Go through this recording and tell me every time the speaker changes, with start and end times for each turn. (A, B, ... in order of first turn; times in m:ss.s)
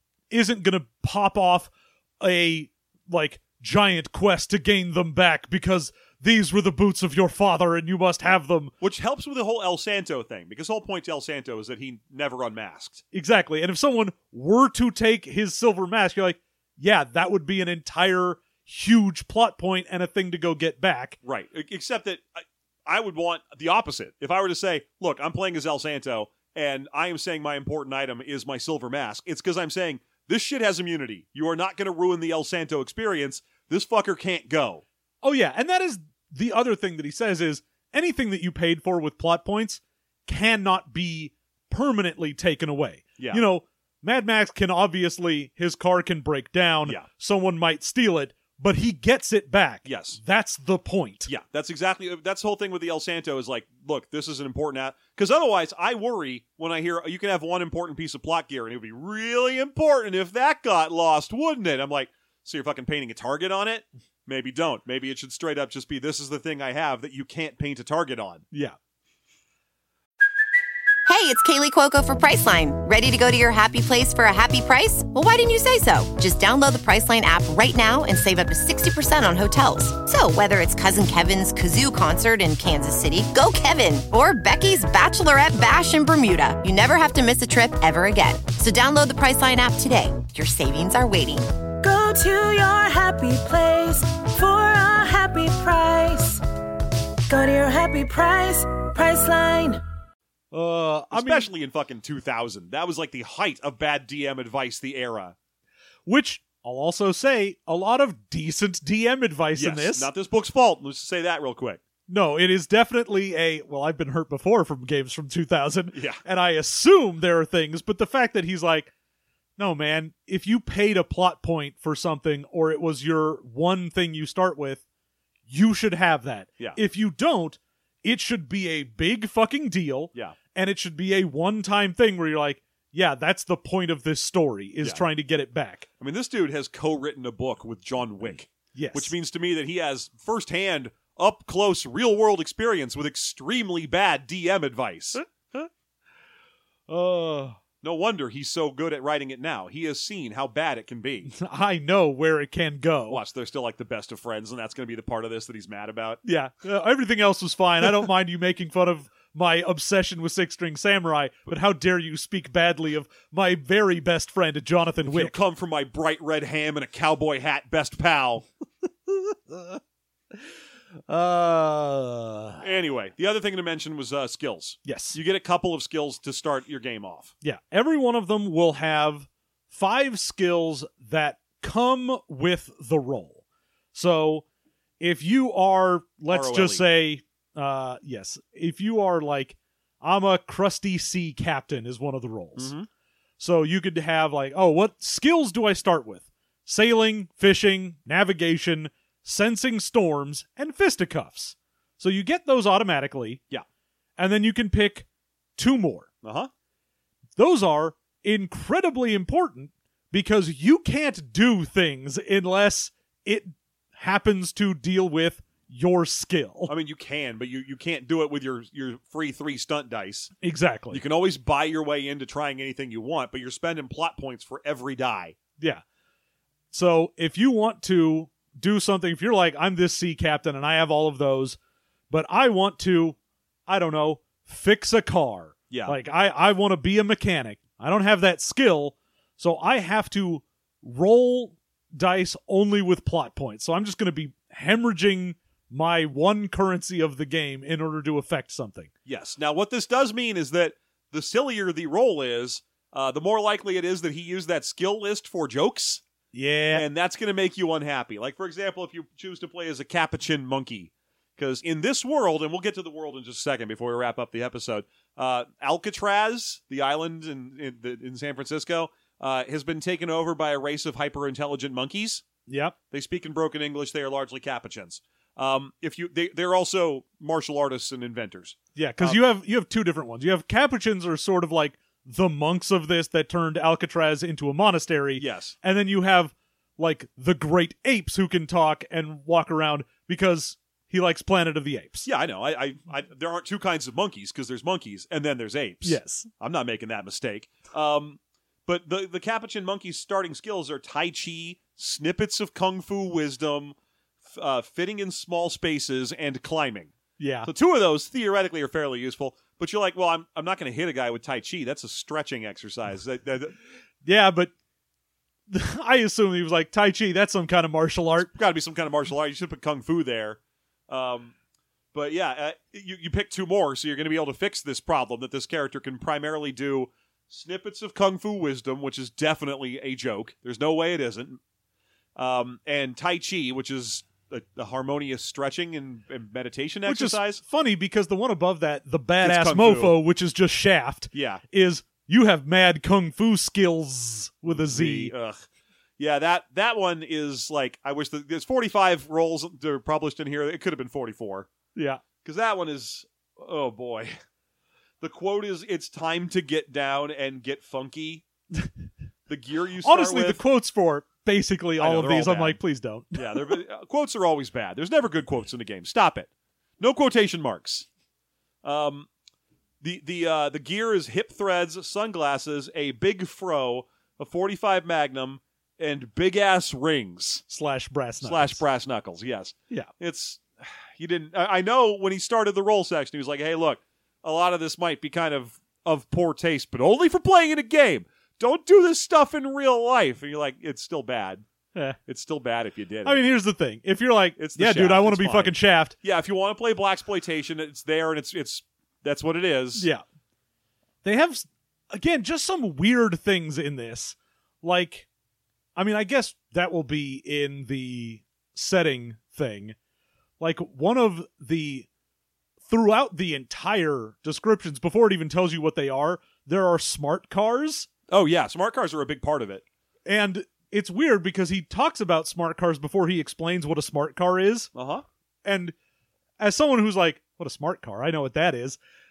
0:00.3-0:08.7 A
0:08.8-0:13.0 B
0:13.1-0:21.2 A
0:21.2-0:34.8 B
0:35.2-0:51.3 A
0:49.8-0:50.2 B
0:51.3-1:08.4 B
1:11.1-1:31.5 C
1:31.8-1:36.4 D
1:37.3-1:39.8 D
1:40.5-1:41.5 A
1:41.1-1:45.4 B
1:46.1-1:50.1 A
1:49.6-1:51.8 B
1:52.1-1:58.9 A
1:55.9-1:56.2 B
1:59.6-2:04.8 A
2:05.5-2:15.9 A
2:16.0-2:25.2 B
2:18.7-2:19.1 A
2:26.9-2:27.6 A
2:27.8-2:31.3 B
2:31.3-2:33.2 A
2:33.1-2:36.2 B
2:36.2-2:45.4 A
2:45.0-2:48.5 B
2:49.1-2:49.8 A
2:51.1-2:52.7 A
2:52.6-2:57.3 B
2:54.8-2:55.2 A
2:57.4-3:03.4 A
3:03.9-3:04.4 A
3:05.0-3:12.7 A
3:06.3-3:06.8 B
3:12.6-3:12.9 B
3:13.4-3:23.4 A
3:24.2-3:26.1 A
3:26.2-3:26.5 B
3:27.4-3:36.7 A
3:36.7-3:40.3 B
3:40.4-3:41.0 A
3:40.9-3:45.4 B
3:46.7-3:51.6 A
3:52.1-3:53.2 A
3:53.7-4:08.9 A
3:55.7-3:56.0 B
4:09.1-4:16.0 B
4:16.3-4:16.8 A
4:16.7-4:32.2 B
4:32.5-4:32.8 A
4:32.9-4:39.2 B
4:38.8-4:52.1 A
4:45.2-4:45.6 B
4:52.0-5:03.8 B
4:55.8-4:56.3 A
5:04.3-5:06.9 B
5:07.2-5:07.5 A
5:07.4-5:13.6 B
5:14.0-5:14.5 A
5:15.5-5:18.3 A
5:18.2-5:21.3 B
5:21.9-5:31.4 B
5:32.2-5:37.4 B
5:36.9-5:45.1 A
5:39.2-5:40.0 B
5:41.1-5:41.4 B
5:44.5-5:45.4 B
5:46.0-5:51.5 B
5:51.8-5:52.0 A
5:52.2-5:54.2 B
5:55.0-5:58.2 B
5:59.3-6:00.4 B
5:59.8-6:03.5 A
6:01.8-6:02.6 B
6:03.1-6:06.3 B
6:06.8-6:07.9 B
6:08.6-6:09.1 B
6:09.8-6:17.4 B
6:17.5-6:18.6 A
6:18.2-6:31.4 B
6:32.1-6:33.2 B
6:33.0-6:36.0 A
6:34.4-6:39.9 B
6:39.8-6:40.0 A
6:41.0-6:45.1 A
6:45.8-6:49.8 A
6:50.4-6:51.9 A
6:52.7-6:57.9 A
6:58.1-6:59.6 B
7:00.1-7:04.7 A
7:04.7-7:05.0 B
7:05.4-7:05.7 A
7:06.4-7:08.8 A